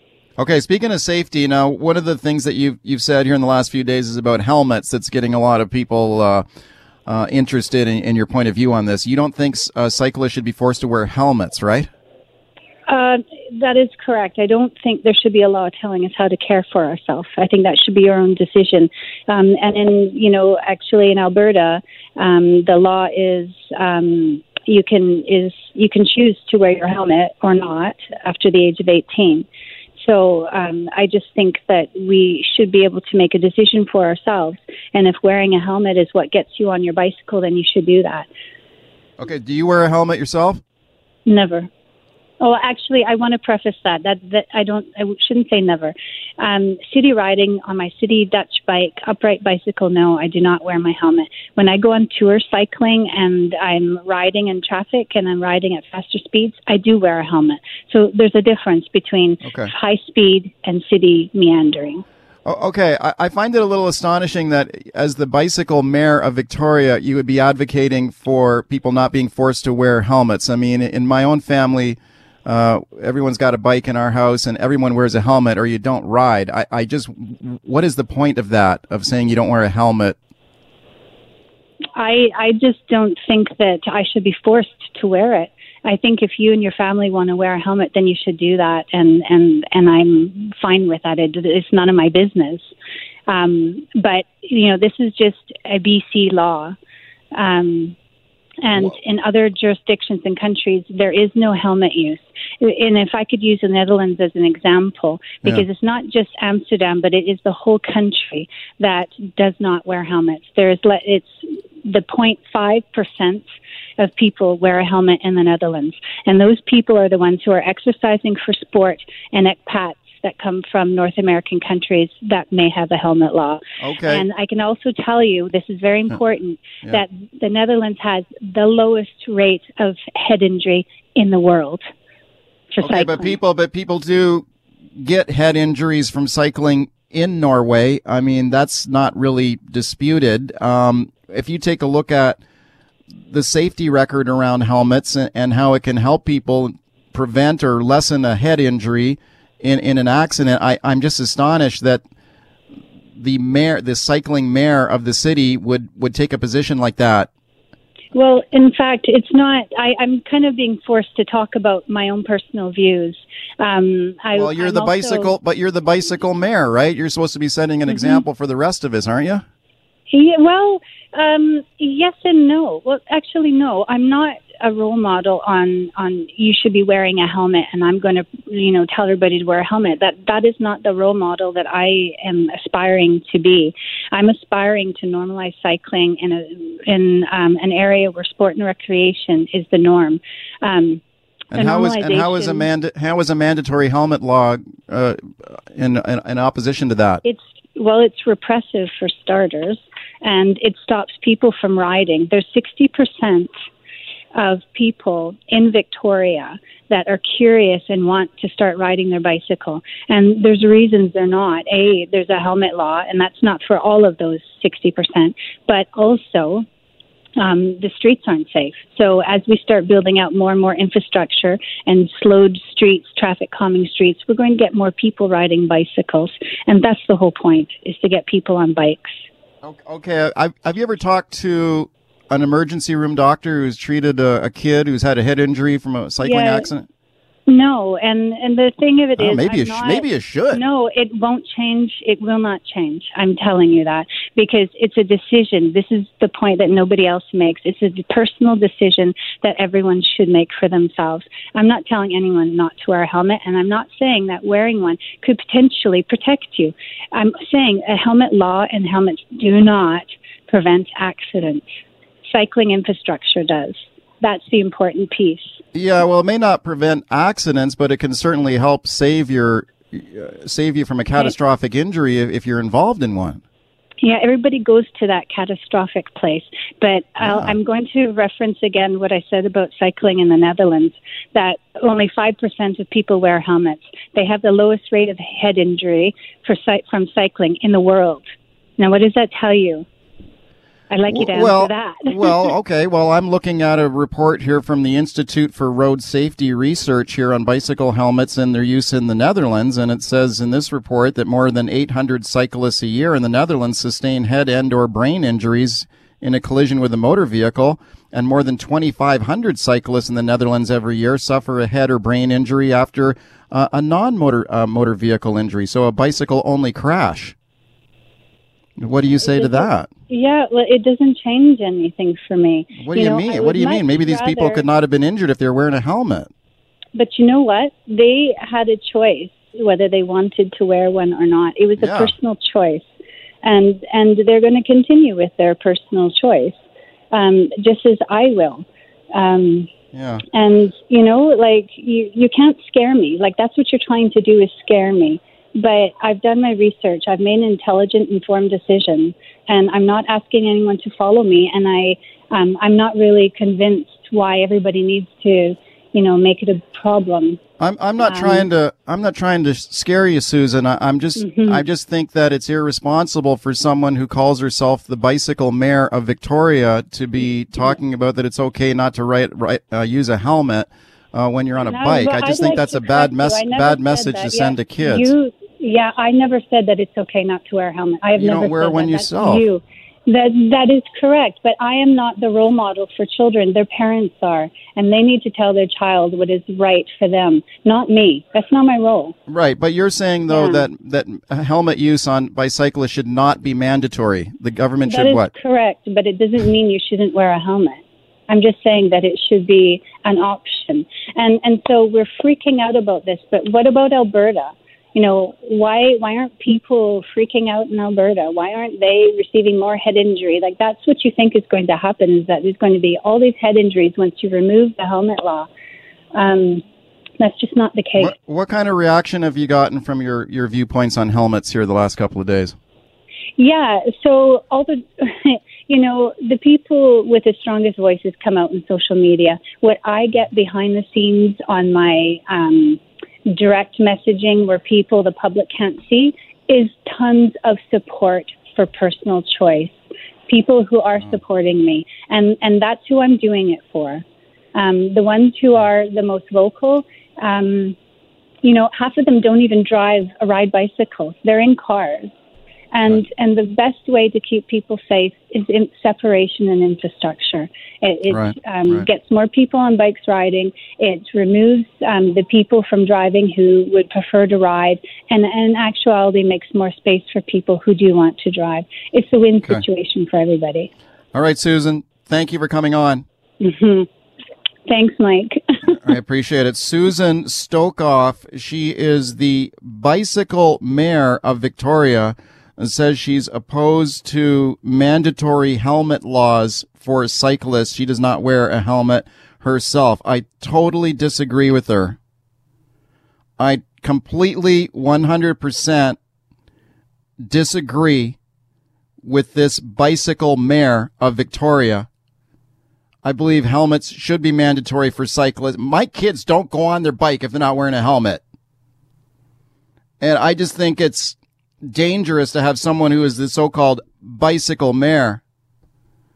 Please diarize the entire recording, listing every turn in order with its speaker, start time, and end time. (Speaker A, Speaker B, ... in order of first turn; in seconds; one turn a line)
Speaker A: 0.4-6.4
Speaker A: 7.0-11.9
Speaker B: 12.9-38.3
Speaker A: 39.2-40.6
Speaker B: 41.2-41.7
Speaker B: 42.4-62.0
Speaker A: 59.4-59.7
Speaker A: 62.4-80.2
Speaker B: 82.0-92.7
Speaker B: 93.3-96.8
Speaker B: 97.3-98.0
Speaker B: 98.6-113.5
Speaker B: 114.0-131.8
Speaker A: 123.8-124.2
Speaker B: 132.7-133.3
Speaker A: 132.8-134.4
Speaker A: 135.0-142.4
Speaker A: 143.3-152.0
Speaker A: 153.2-157.3
Speaker B: 158.1-165.3
Speaker A: 164.3-169.4
Speaker B: 167.9-168.2
Speaker B: 170.1-191.0
Speaker A: 191.5-197.2
Speaker B: 191.5-192.7
Speaker B: 197.2-203.5
Speaker B: 204.3-216.7
Speaker B: 217.4-229.2
Speaker A: 229.6-236.8
Speaker B: 236.2-236.7
Speaker B: 237.5-261.6
Speaker A: 239.2-240.6
Speaker B: 262.3-265.6
Speaker A: 265.7-273.4
Speaker B: 274.0-288.2
Speaker A: 277.2-277.5
Speaker B: 288.8-289.9
Speaker B: 290.9-292.5
Speaker A: 291.1-317.4
Speaker A: 318.8-319.9
Speaker B: 319.2-324.6
Speaker A: 322.8-326.3
Speaker B: 326.9-332.9
Speaker A: 331.8-332.1
Speaker B: 333.4-336.6
Speaker B: 337.1-339.7
Speaker A: 339.9-340.2
Speaker B: 340.3-357.4
Speaker A: 357.6-375.1
Speaker B: 358.0-358.5
Speaker B: 361.2-361.6
Speaker B: 371.6-389.1
Speaker A: 378.1-379.5
Speaker A: 389.3-395.3
Speaker B: 390.3-390.7
Speaker B: 394.9-415.5
Speaker B: 416.1-416.6
Speaker B: 417.2-418.1
Speaker A: 418.0-422.5
Speaker B: 423.4-444.0
Speaker B: 444.5-447.8
Speaker B: 448.4-452.1
Speaker B: 452.7-470.7
Speaker A: 458.1-458.9
Speaker A: 471.1-473.0
Speaker B: 473.4-473.9
Speaker B: 474.7-475.8
Speaker A: 475.7-492.0
Speaker A: 493.4-496.0
Speaker A: 497.3-498.2
Speaker A: 499.0-501.9
Speaker A: 503.0-508.2
Speaker A: 510.0-515.2